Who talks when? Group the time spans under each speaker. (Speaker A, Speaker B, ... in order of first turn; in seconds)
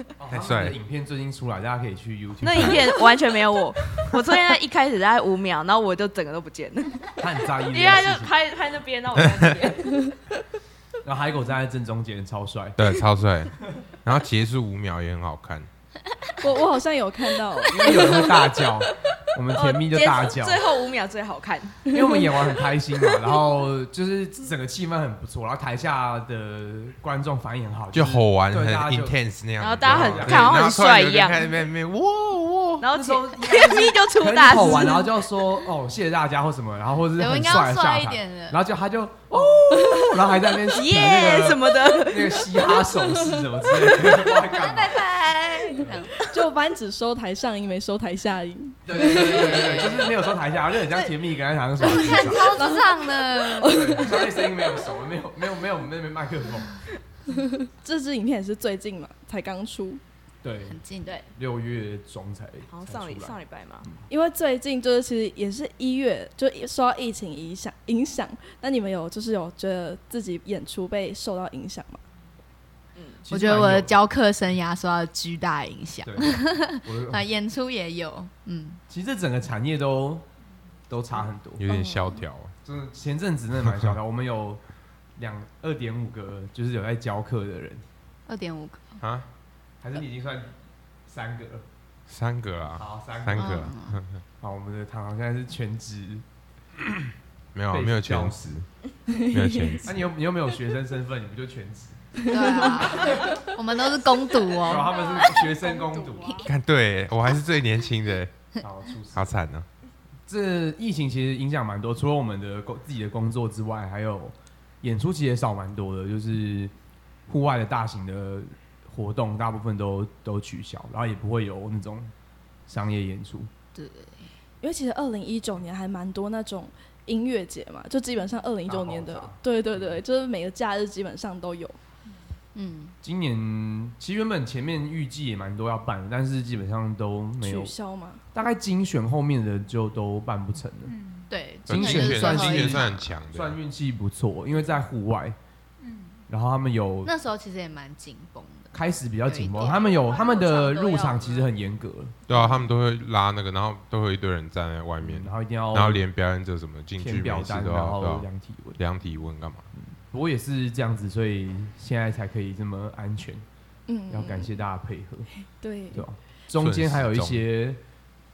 Speaker A: 0.2-3.0, 7.2-8.3, 11.0-12.8, 17.7-20.6, 21.9-29.2, 29.8-30.6, 32.9-45.1, 48.9-52.6, 53.6-56.8, 60.4-60.8, 61.3-64.0, 73.3-74.0, 76.0-77.2, 78.9-80.2, 80.9-81.7, 82.6-84.6, 85.2-87.8, 89.8-90.5, 91.1-91.6, 92.8-93.7, 94.4-96.2, 97.7-98.5, 99.8-103.4, 104.5-106.4, 108.6-109.3, 110.3-116.7, 117.3-122.1, 122.7-123.5, 128.7-130.0, 133.0-137.7, 138.3-140.9, 141.7-145.3, 146.3-147.1, 148.7-152.2, 155.0-156.0, 157.0-158.8, 159.7-163.4, 164.1-165.3, 165.9-167.8
Speaker B: 0.3-0.8, 12.8-15.7, 27.9-32.9, 81.6-82.5, 83.7-84.0, 89.0-89.2, 92.1-94.2, 97.5-98.7, 99.3-100.0, 106.4-108.3, 109.1-109.7, 141.7-143.6, 152.3-159.7, 166.5-167.4
Speaker C: 2.4-10.1, 17.9-18.3, 19.5-21.9, 29.6-31.5, 32.8-35.1, 40.7-42.7, 62.7-63.9, 73.0-73.2, 81.7-82.1, 149.7-151.5
Speaker D: 16.4-18.1, 46.2-49.6, 52.5-54.2, 57.3-60.0, 64.1-72.0, 99.1-99.8, 124.6-131.8, 137.4-138.2, 163.9-164.6, 165.6-166.1
Speaker E: 37.1-38.6, 44.5-46.2, 49.0-50.1, 51.8-54.0, 60.7-61.2, 73.3-78.8, 88.3-89.0, 93.3-94.0, 102.2-105.1, 123.7-124.3, 132.5-132.9, 141.3-143.1, 147.0-148.7, 149.2-149.8, 152.3-152.7
Speaker F: 104.9-106.5, 140.9-141.3, 145.8-146.2